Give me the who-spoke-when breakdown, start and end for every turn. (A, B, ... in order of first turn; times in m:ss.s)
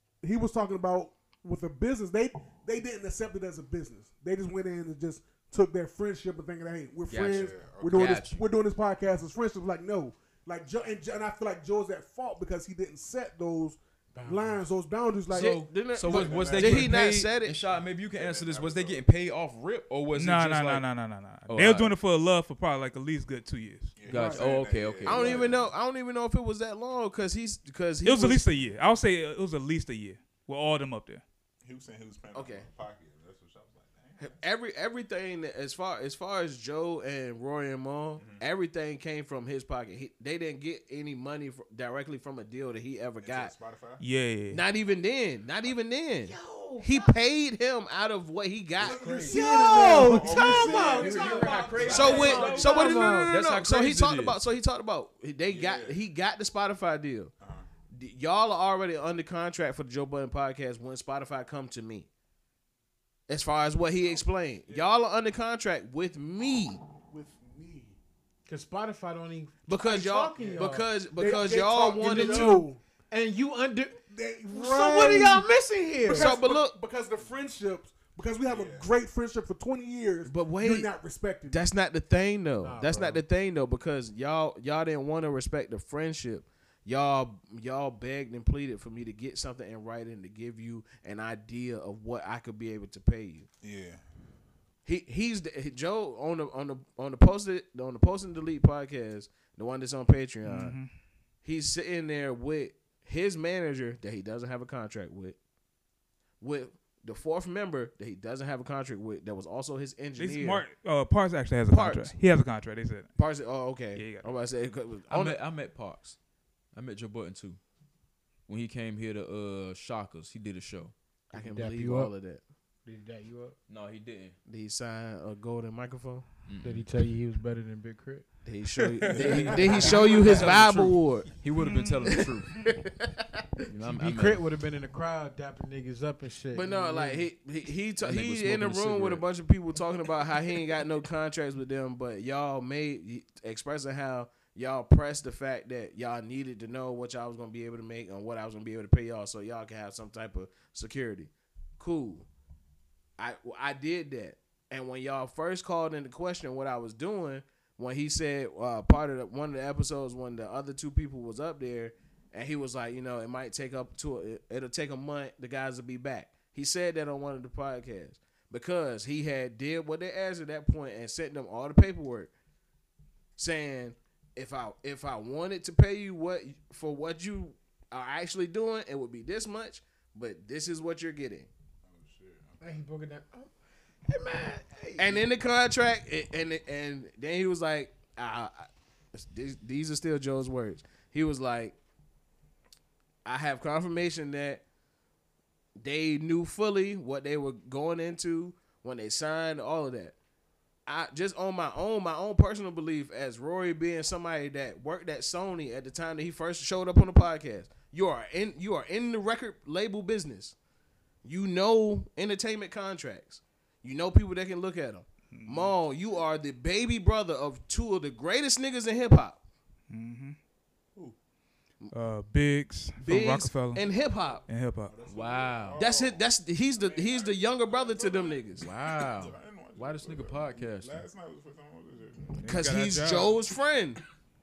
0:00.2-0:15.6 A
0:07.1-0:08.4 B
0:07.1-0:08.2 C
0:14.1-0:14.6 D
0:15.3-0:20.8 B
0:15.3-0:17.6 E
0:16.0-0:17.1 C
0:17.7-0:19.1 C
0:20.1-0:23.9 F
0:21.5-0:21.9 B
0:24.0-0:25.7 C
0:24.1-0:25.5 B
0:24.1-0:24.5 A
0:25.0-0:28.4 E
0:28.0-0:31.2 F
0:31.6-0:34.4 C
0:32.3-0:32.6 E
0:34.2-0:43.5 E
0:38.2-0:38.4 C
0:43.2-0:44.0 C
0:44.0-0:44.6 F
0:44.5-0:49.3 E
0:46.2-0:47.2 D
0:48.8-0:52.1 A
0:48.9-0:53.4 D
0:49.2-0:52.2 C
0:51.0-0:54.4 B
0:51.9-0:57.3 E
0:55.5-0:56.0 C
0:57.4-0:57.7 C
0:57.9-1:02.1 E
1:03.3-1:06.8 E
1:04.0-1:04.9 C
1:07.1-1:08.0 A
1:08.5-1:10.9 D
1:09.7-1:12.6 E
1:10.4-1:12.8 A
1:12.0-1:14.0 D
1:14.1-1:15.4 A
1:14.5-1:16.4 D
1:16.0-1:21.6 A
1:16.1-1:16.8 E
1:18.5-1:18.9 C
1:20.2-1:20.9 E
1:21.5-1:33.5 E
1:22.6-1:23.2 D
1:33.6-1:34.0 C
1:34.8-1:40.8 E
1:40.4-1:40.9 F
1:41.4-1:45.4 E
1:46.4-1:50.6 E
1:50.2-1:53.1 F
1:51.7-1:52.1 E
1:53.2-1:55.4 E
1:53.9-1:54.3 F
1:55.1-1:56.2 B
1:56.7-1:57.6 B
1:58.5-2:00.9 B
2:01.3-2:02.1 D
2:01.3-2:02.4 E
2:02.8-2:03.6 D
2:03.7-2:04.4 B
2:04.5-2:06.2 E
2:06.5-2:06.8 B
2:06.6-2:08.3 D
2:08.4-2:11.3 E
2:09.1-2:12.7 B
2:09.2-2:10.5 C
2:09.8-2:10.2 D
2:10.2-2:10.4 A
2:11.6-2:12.3 F
2:12.0-2:13.4 E
2:13.7-2:14.4 B
2:13.8-2:17.3 D
2:16.5-2:32.3 E
2:18.0-2:19.2 B
2:33.2-2:52.3 E
2:53.4-3:01.5 E
3:01.8-3:02.8 C
3:02.6-3:03.5 D
3:04.1-3:05.2 D
3:05.0-3:11.8 E
3:13.2-3:14.6 E
3:15.8-3:20.1 E
3:20.8-3:30.6 E
3:31.2-3:39.4 E
3:35.3-3:35.7 F
3:39.9-3:40.4 F
3:41.9-3:43.8 F
3:43.0-3:44.4 E
3:44.5-3:44.9 F
3:44.8-3:52.5 C
3:45.1-3:45.8 B
3:45.8-3:48.6 E
3:48.6-3:51.0 B
3:52.4-3:53.4 F
3:52.4-3:54.0 E